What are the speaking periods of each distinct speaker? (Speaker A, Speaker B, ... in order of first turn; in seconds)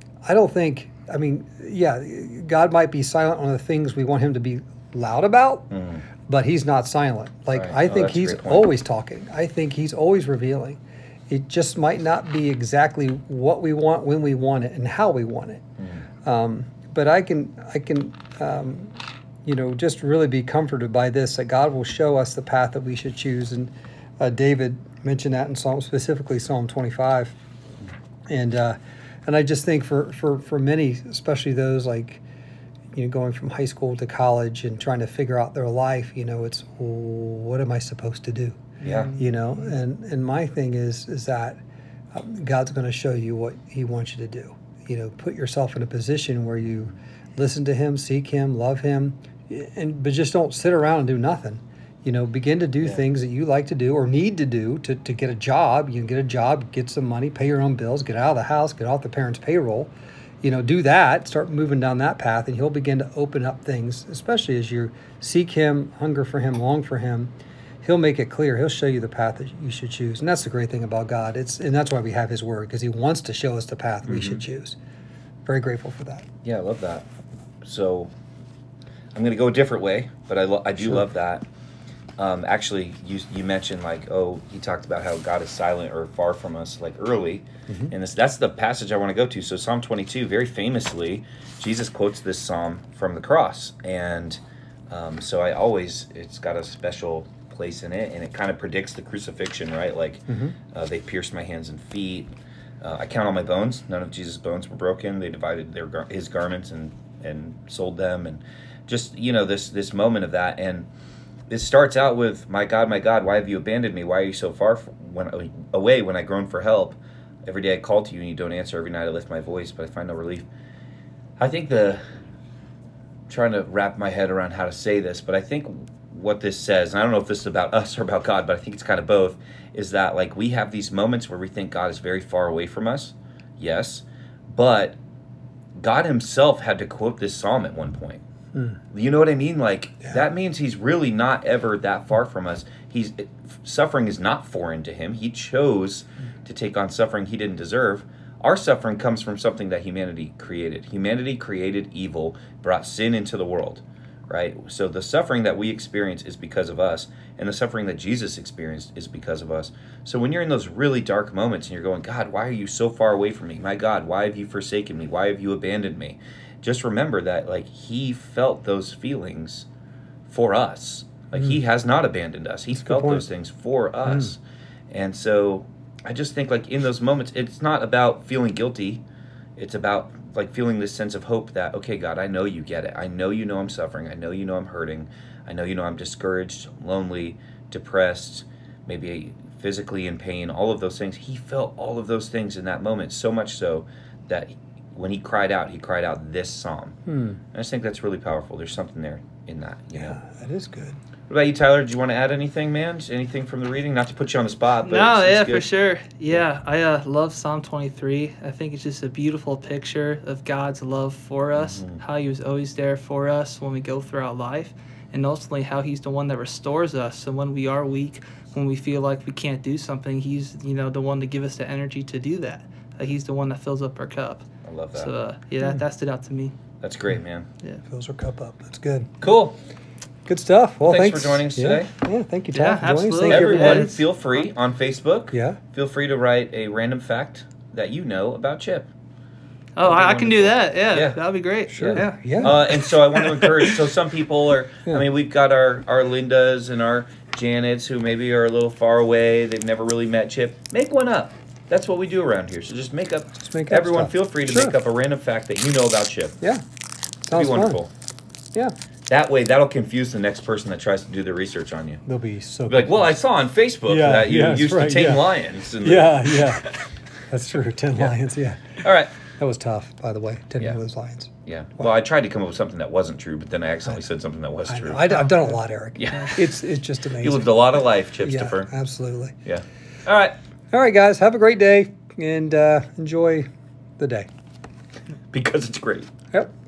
Speaker A: 0.2-5.7, 6.3-15.6, 16.2-27.4, 28.3-32.2, 32.9-41.6, 42.1-74.8, 75.5-76.3, 80.8-81.0, 87.7-87.9, 100.3-100.5, 172.8-173.3, 174.1-174.3, 197.1-197.4, 199.9-201.0, 227.9-229.1, 230.3-234.0, 235.3-235.6, 241.7-242.6, 253.4-254.8, 257.3-257.8, 262.1-263.2, 263.9-266.7, 267.3-268.8, 269.4-271.9, 274.7-277.5, 278.2-279.4, 280.7-283.5, 284.0-284.3
Speaker B: 5.7-6.0, 7.5-8.7, 15.8-16.0, 38.8-39.2, 74.1-74.4, 76.4-77.1, 77.6-78.1, 79.2-81.5, 82.2-110.9, 111.5-120.5, 121.4-122.0, 123.3-135.0, 135.8-138.2, 138.9-169.7, 170.3-174.4, 174.9-179.0, 179.6-197.0, 197.5-200.2, 201.3-205.7, 211.5-212.0, 224.7-225.1, 226.8-227.5, 229.2-229.6, 230.8-231.9, 233.3-238.9, 239.8-241.2, 241.8-256.4, 257.3-257.9, 259.1-262.0, 262.7-266.6, 268.8-269.1, 271.4-275.3, 276.0-276.5, 277.2-278.7, 279.4-280.4, 285.3-286.1
Speaker C: 38.9-39.3, 204.8-226.6, 232.5-234.1, 239.8-242.4